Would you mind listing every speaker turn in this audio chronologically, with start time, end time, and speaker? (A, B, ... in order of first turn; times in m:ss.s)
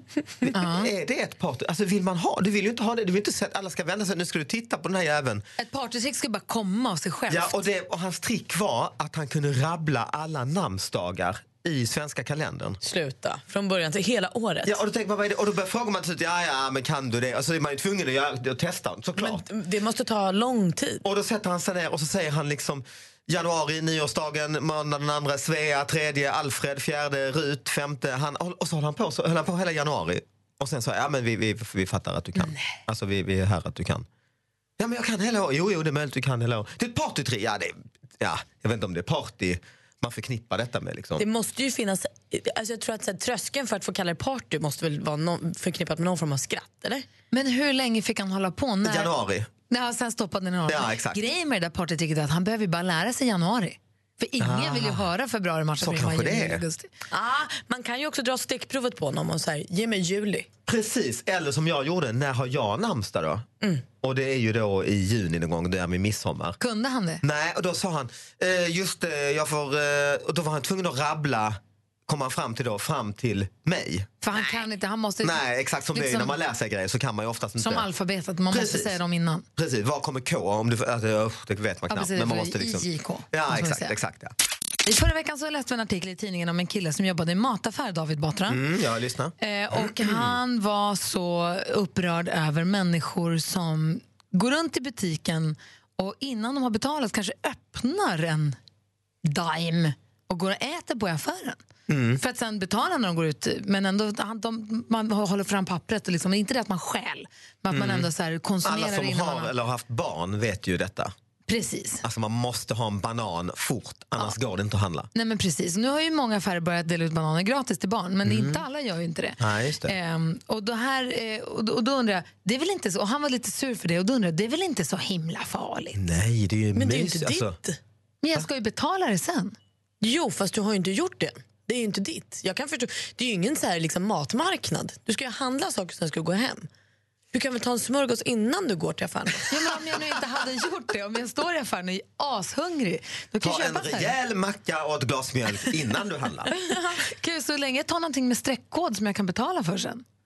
0:00.4-0:05.4 A
0:00.5-0:00.9 B
0:05.6-0:07.6 B
0:07.3-0:12.8 A
0:12.8-0:14.8 C
0:14.6-0:19.4 A
0:19.2-0:21.0 C
0:21.0-0:34.1 A
0:34.8-0:41.2 A
0:41.2-0:47.1 C
0:47.3-0:49.1 B
0:48.8-0:49.5 A
0:49.7-0:56.9 B
0:50.7-0:51.2 A
0:54.4-0:55.1 A
0:55.8-0:56.6 A
0:57.1-1:00.5 C
1:00.7-1:03.5 A
1:04.0-1:06.6 A
1:06.6-1:07.2 B
1:07.2-1:14.1 A
1:14.2-1:16.4 B
1:15.2-1:17.9 A
1:17.6-1:19.5 B
1:18.5-1:19.0 A
1:19.6-1:24.3 A
1:21.9-1:23.9 B
1:24.9-1:28.6 B
1:28.5-1:30.4 A
1:29.4-1:38.6 B
1:39.2-1:41.6 B
1:41.9-1:42.2 A
1:42.2-1:49.5 B
1:47.7-1:48.1 A
1:48.6-1:51.1 A
1:51.5-1:52.0 B
1:52.0-1:55.1 A
1:55.1-2:06.0 B
1:58.2-1:58.6 A
1:59.4-2:00.0 A
2:06.0-2:07.6 A
2:06.8-2:07.8 C
2:08.2-2:09.6 B
2:10.0-2:16.7 C
2:17.3-2:19.8 C
2:19.5-2:24.1 B
2:23.4-2:26.5 A
2:26.6-2:27.0 C
2:27.0-2:30.0 B